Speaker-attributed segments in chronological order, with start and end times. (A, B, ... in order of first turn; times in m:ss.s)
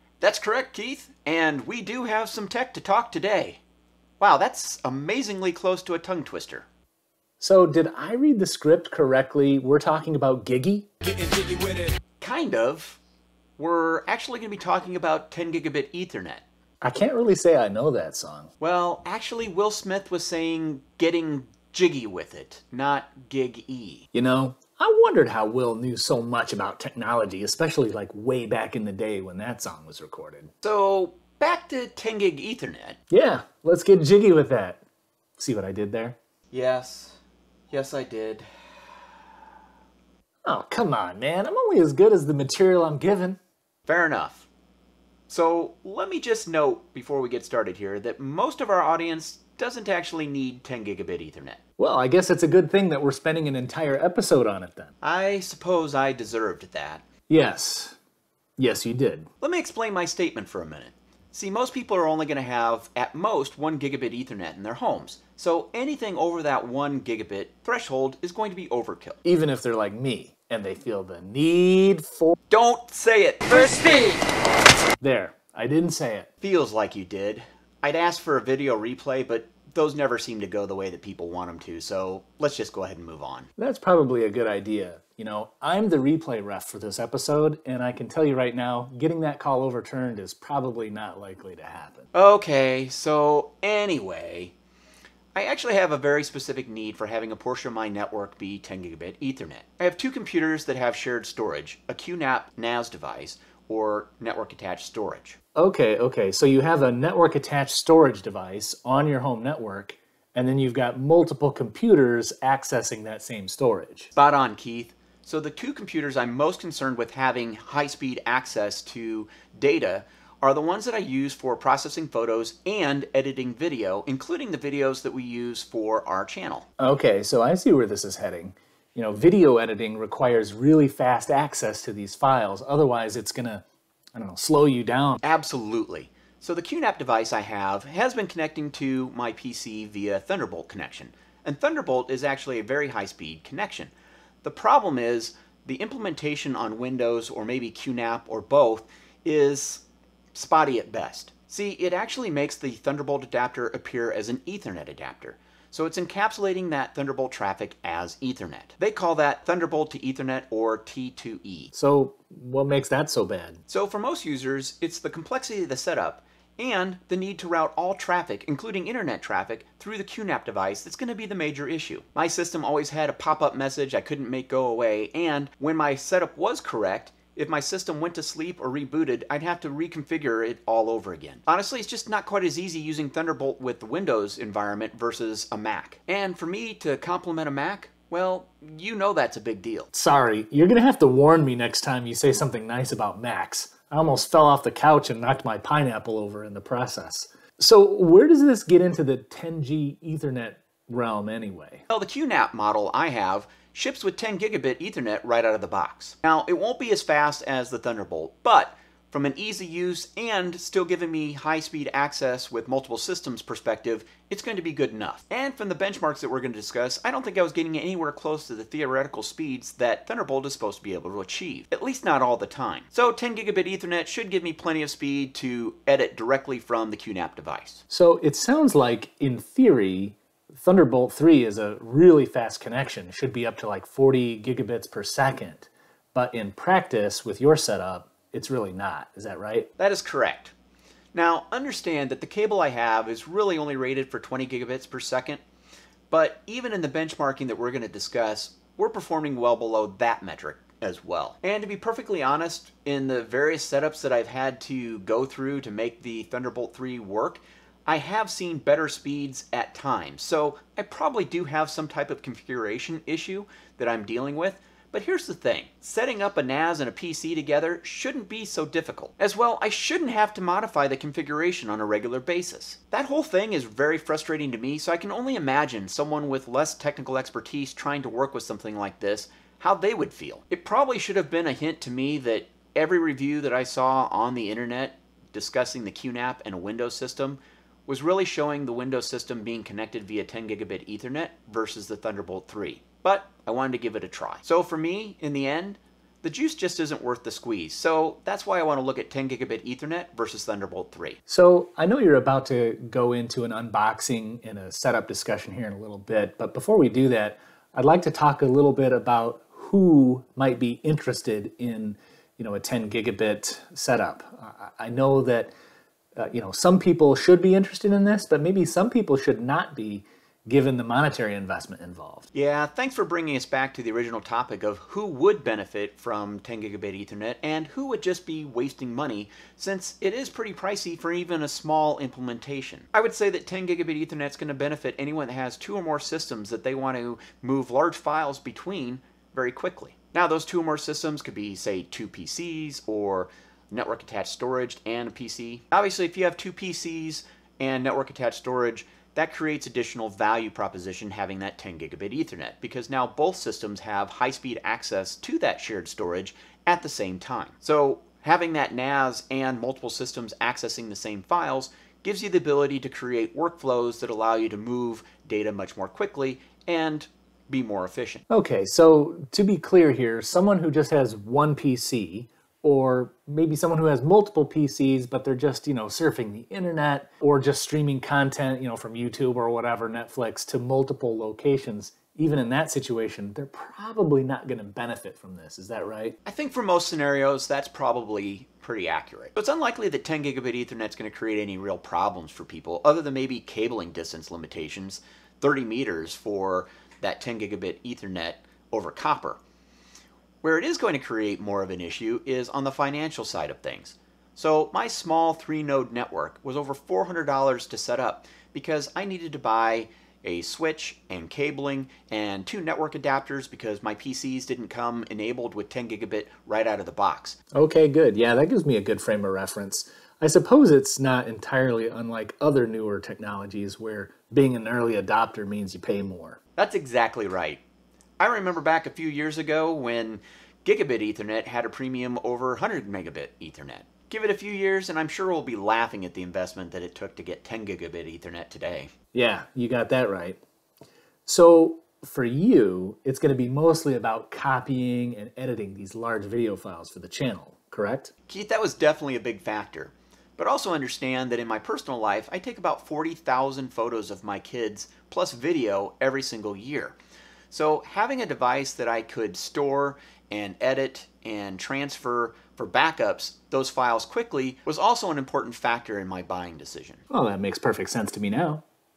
0:00.2-0:03.6 A
0:04.2-0:06.7 A
0:07.4-0:10.9 B
0:11.1-0:13.0 A
0:13.6-0:16.4 A
0:16.8-0:18.5 B
0:18.6-0:24.1 A
0:24.1-0:30.5 B
0:30.6-0:33.0 A
0:33.1-0:34.8 B
0:35.4-0:36.2 B
0:36.5-0:38.5 A
0:40.5-0:43.4 B
0:43.9-0:44.5 A
0:45.3-0:51.6 A
0:51.8-0:54.9 B
0:55.0-0:57.1 A
0:57.3-0:58.0 B
0:58.6-0:59.3 B
0:59.4-1:09.2 A
1:09.2-1:12.4 B
1:12.5-1:14.2 A
1:15.0-1:16.3 B
1:16.4-1:23.5 A
1:23.6-1:32.1 B
1:32.1-1:34.5 A
1:35.4-1:45.4 A
1:45.6-1:54.1 B
1:54.2-2:06.7 A
2:06.8-2:15.2 B
2:15.2-2:23.9 A
2:24.4-2:41.7 A
2:41.7-2:43.6 B
2:43.7-3:09.9 A
3:09.9-3:21.8 B
3:21.9-3:47.8 A
3:47.9-3:59.7 B
3:59.8-4:00.5 A
4:01.1-4:05.4 A
4:06.1-5:01.2 A
5:01.3-5:15.5 B
5:16.2-5:22.3 B
5:22.3-6:08.2 A
6:08.3-6:26.2 B
6:26.3-6:39.4 A
6:40.4-6:57.4 A
6:57.6-7:06.4 B
7:06.6-7:07.6 A
7:08.2-7:18.9 A
7:19.1-7:20.4 B
7:21.3-7:28.1 B
7:28.3-7:37.0 A
7:37.5-7:47.0 A
7:47.1-7:48.6 B